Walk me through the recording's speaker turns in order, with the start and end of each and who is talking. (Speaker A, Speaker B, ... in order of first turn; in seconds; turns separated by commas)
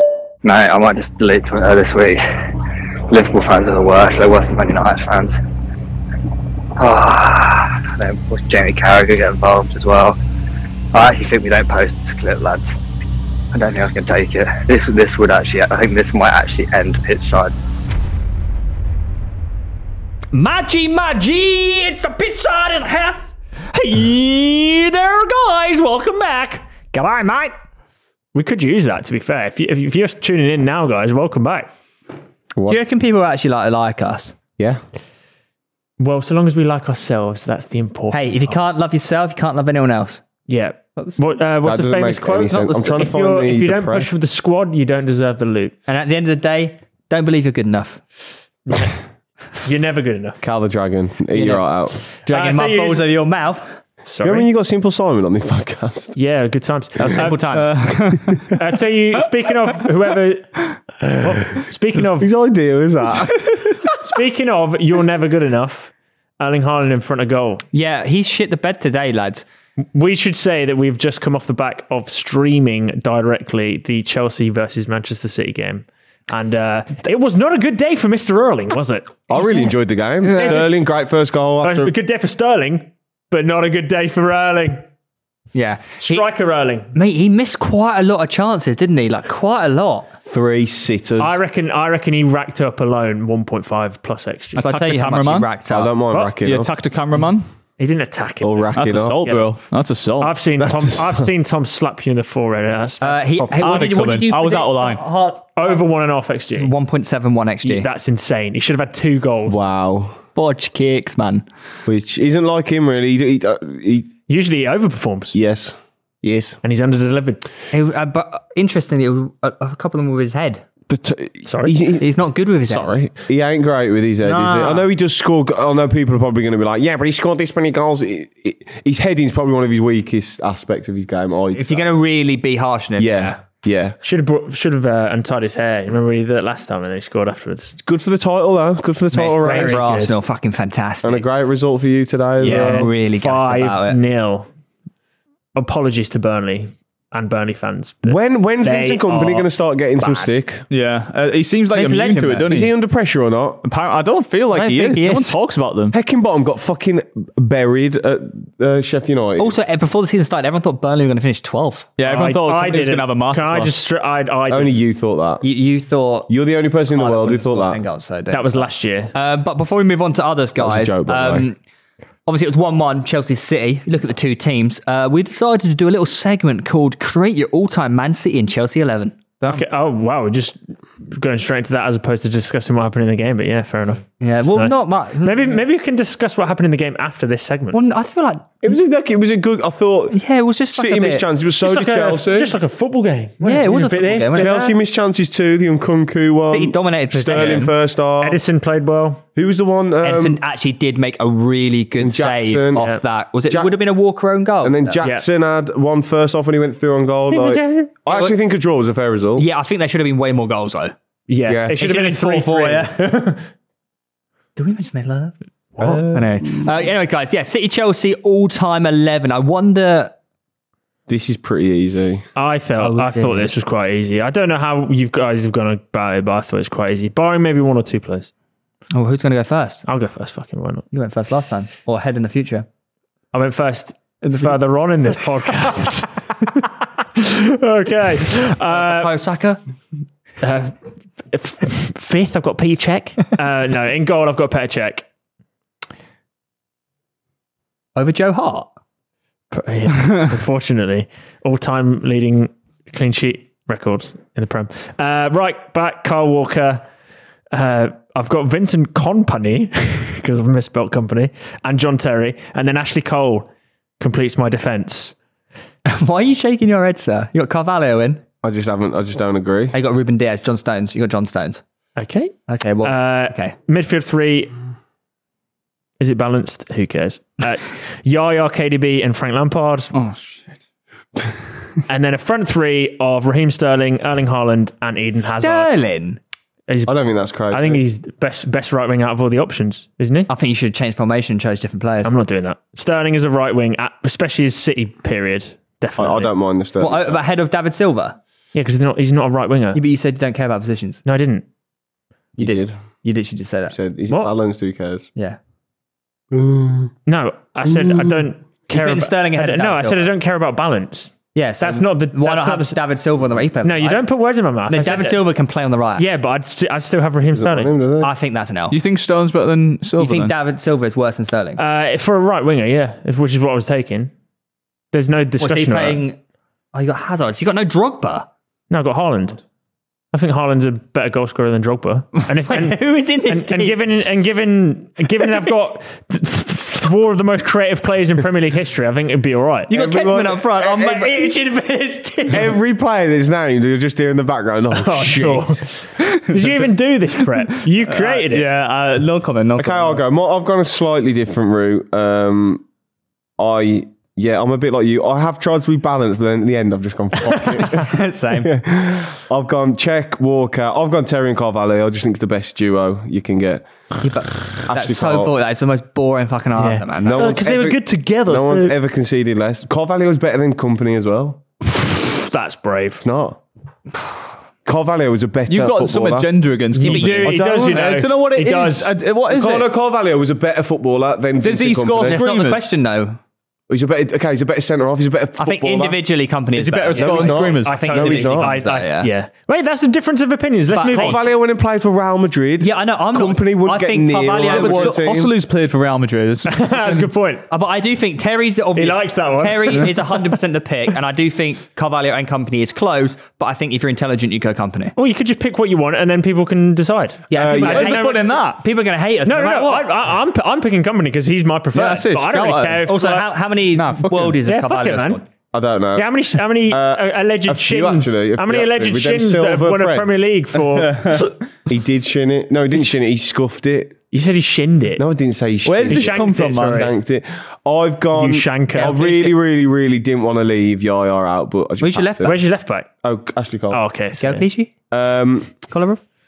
Speaker A: 0.4-2.2, Speaker A: 3.1-5.4, Speaker A: 6.8-10.2, Speaker A: 10.9-12.7, Speaker A: 13.5-17.5, Speaker B: 20.3-23.3, Speaker C: 23.8-24.6, Speaker C: 25.3-26.6, Speaker B: 26.9-27.5, Speaker C: 28.4-31.6, Speaker D: 32.5-32.8, Speaker B: 32.7-34.3, Speaker C: 36.0-38.5, Speaker B: 38.1-40.2, Speaker C: 40.5-45.7, Speaker D: 41.6-44.1, Speaker B: 45.9-48.0, Speaker C: 49.6-50.4, Speaker D: 50.4-52.0, Speaker B: 51.3-53.7, Speaker C: 52.3-53.0, Speaker C: 54.1-54.4, Speaker D: 54.2-56.2, Speaker C: 56.1-57.3, Speaker B: 57.0-57.8, Speaker E: 57.5-58.6, Speaker C: 58.6-60.4, Speaker C: 61.2-62.2, Speaker D: 62.1-63.6, Speaker C: 64.0-67.6, Speaker B: 67.7-69.4, Speaker C: 69.9-79.0, Speaker D: 79.3-81.9, Speaker B: 80.2-80.6, Speaker C: 80.4-80.6, Speaker C: 81.6-84.8, Speaker B: 85.5-86.2, Speaker C: 86.1-86.9, Speaker B: 86.9-90.1, Speaker D: 90.3-91.3, Speaker C: 91.2-94.6, Speaker E: 94.5-95.5, Speaker B: 94.6-96.0, Speaker D: 95.7-96.7, Speaker E: 96.4-97.5, Speaker C: 97.8-98.5, Speaker D: 98.4-99.2, Speaker E: 98.7-100.4, Speaker C: 100.2-103.6, Speaker D: 100.6-101.2, Speaker B: 103.0-105.8, Speaker E: 103.6-105.0, Speaker C: 105.6-106.7, Speaker B: 106.6-107.9, Speaker C: 107.6-109.5, Speaker D: 109.5-110.2, Speaker B: 110.3-111.5, Speaker D: 111.8-114.1, Speaker C: 114.3-115.3, Speaker D: 115.3-116.6, Speaker C: 116.6-117.4, Speaker B: 117.7-120.6, Speaker D: 120.9-122.1, Speaker C: 121.5-121.7, Speaker B: 122.0-123.0, Speaker D: 122.7-131.8, Speaker B: 124.2-124.8, Speaker B: 131.5-133.4, Speaker D: 133.0-133.9, Speaker C: 134.0-137.7, Speaker D: 137.8-140.0, Speaker B: 139.1-141.2, Speaker C: 139.4-140.1, Speaker D: 141.0-142.9, Speaker B: 142.4-144.0, Speaker C: 142.5-144.3, Speaker C: 145.6-149.5, Speaker D: 148.0-150.6, Speaker C: 150.0-150.3, Speaker E: 150.7-152.7, Speaker B: 151.7-152.4, Speaker D: 152.4-153.6, Speaker E: 153.6-155.9, Speaker B: 154.5-155.4, Speaker D: 155.9-159.6, Speaker B: 159.4-161.9, Speaker E: 162.0-163.8, Speaker C: 162.1-164.7, Speaker D: 164.5-165.4, Speaker B: 165.4-166.3, Speaker D: 166.3-167.8, Speaker B: 166.9-171.6, Speaker C: 168.3-169.1, Speaker D: 170.6-171.5, Speaker B: 172.2-179.7, Speaker C: 179.5-180.5, Speaker C: 181.2-184.0, Speaker B: 184.2-185.6, Speaker C: 185.2-187.8, Speaker B: 187.7-188.4, Speaker D: 188.6-190.2, Speaker B: 190.1-191.2, Speaker D: 190.7-192.5, Speaker C: 191.6-194.5, Speaker B: 193.4-194.6, Speaker D: 194.3-198.4, Speaker B: 196.5-197.7, Speaker C: 197.3-197.5, Speaker C: 198.2-199.2, Speaker D: 199.3-200.4, Speaker B: 200.0-205.0, Speaker D: 202.0-202.9, Speaker D: 203.5-203.8, Speaker D: 204.6-209.4, Speaker B: 208.1-208.4, Speaker B: 209.4-210.9, Speaker C: 211.3-213.2, Speaker D: 211.4-211.8, Speaker B: 211.8-213.0, Speaker B: 214.6-220.1, Speaker D: 215.8-216.7, Speaker D: 221.1-222.2, Speaker C: 222.3-228.3, Speaker B: 222.8-223.5, Speaker B: 228.9-229.8, Speaker C: 229.9-230.8, Speaker B: 230.9-232.7, Speaker C: 233.3-235.9, Speaker C: 237.7-239.1, Speaker B: 238.7-239.6, Speaker C: 241.4-245.0, Speaker B: 247.9-248.7, Speaker C: 249.5-252.3, Speaker C: 252.9-256.8, Speaker C: 257.6-259.6, Speaker C: 260.3-263.4, Speaker C: 264.0-265.1, Speaker B: 265.9-268.2, Speaker D: 268.4-269.7, Speaker B: 269.7-271.6, Speaker C: 272.0-272.3, Speaker B: 272.5-273.6, Speaker C: 272.8-274.5, Speaker C: 276.0-279.9, Speaker C: 281.9-285.6, Speaker B: 285.1-286.2, Speaker D: 286.9-287.8, Speaker C: 287.5-290.3, Speaker B: 290.3-292.1, Speaker C: 292.0-296.2, Speaker D: 296.0-297.2, Speaker B: 296.8-298.2, Speaker C: 298.5-299.8, Speaker B: 299.7-301.0, Speaker C: 301.0-301.4, Speaker B: 302.4-303.8, Speaker D: 302.4-302.8, Speaker D: 303.7-305.1, Speaker D: 306.3-306.9, Speaker C: 307.1-312.8, Speaker B: 308.7-310.1, Speaker B: 311.3-314.0, Speaker C: 313.6-315.1, Speaker B: 314.7-316.0, Speaker C: 316.0-317.7, Speaker D: 317.3-318.1, Speaker B: 318.0-318.8, Speaker E: 318.7-320.3, Speaker B: 320.0-321.6, Speaker C: 321.6-324.1, Speaker C: 324.9-325.9, Speaker B: 325.4-326.2, Speaker B: 326.7-328.3, Speaker C: 328.7-329.4, Speaker C: 330.1-332.8, Speaker B: 332.4-333.8, Speaker C: 333.3-339.7, Speaker B: 339.7-341.4, Speaker D: 339.7-341.1, Speaker D: 342.3-345.6, Speaker C: 344.7-345.6, Speaker E: 346.1-346.7, Speaker C: 346.3-348.4, Speaker E: 347.4-350.0, Speaker D: 349.6-352.6, Speaker D: 353.4-363.7, Speaker B: 357.7-358.5, Speaker B: 364.0-367.3, Speaker D: 364.7-365.3, Speaker C: 366.6-368.7, Speaker D: 367.0-371.4, Speaker C: 372.0-373.0, Speaker D: 373.0-373.4, Speaker D: 374.6-376.3, Speaker E: 375.5-379.7, Speaker C: 376.8-378.9, Speaker B: 376.8-377.4, Speaker D: 379.3-382.2, Speaker E: 381.4-382.7, Speaker B: 382.0-383.2, Speaker D: 383.7-386.0, Speaker B: 385.4-389.1, Speaker E: 386.5-387.8, Speaker D: 386.9-388.5, Speaker C: 387.7-391.2, Speaker B: 390.7-391.2, Speaker D: 390.9-395.3, Speaker B: 392.6-395.0, Speaker E: 394.5-397.1, Speaker C: 396.5-397.4, Speaker B: 397.5-404.9, Speaker C: 398.8-399.7, Speaker C: 404.9-407.2, Speaker B: 407.3-409.9, Speaker D: 407.3-407.9, Speaker E: 407.5-408.6, Speaker C: 407.8-408.2, Speaker C: 409.2-413.2, Speaker E: 411.7-412.9, Speaker B: 412.9-415.2, Speaker E: 413.7-414.4, Speaker C: 414.4-415.2, Speaker D: 415.5-420.3, Speaker C: 416.0-420.9, Speaker E: 420.6-421.4, Speaker D: 421.6-424.0, Speaker C: 424.1-425.0, Speaker D: 425.0-432.3, Speaker E: 425.6-426.9, Speaker C: 425.9-426.8, Speaker C: 428.2-428.9, Speaker B: 428.7-429.4, Speaker B: 431.8-432.4, Speaker C: 432.2-432.9, Speaker D: 433.0-433.8, Speaker C: 433.7-434.4, Speaker B: 434.2-434.7, Speaker D: 434.9-435.6, Speaker B: 435.7-436.0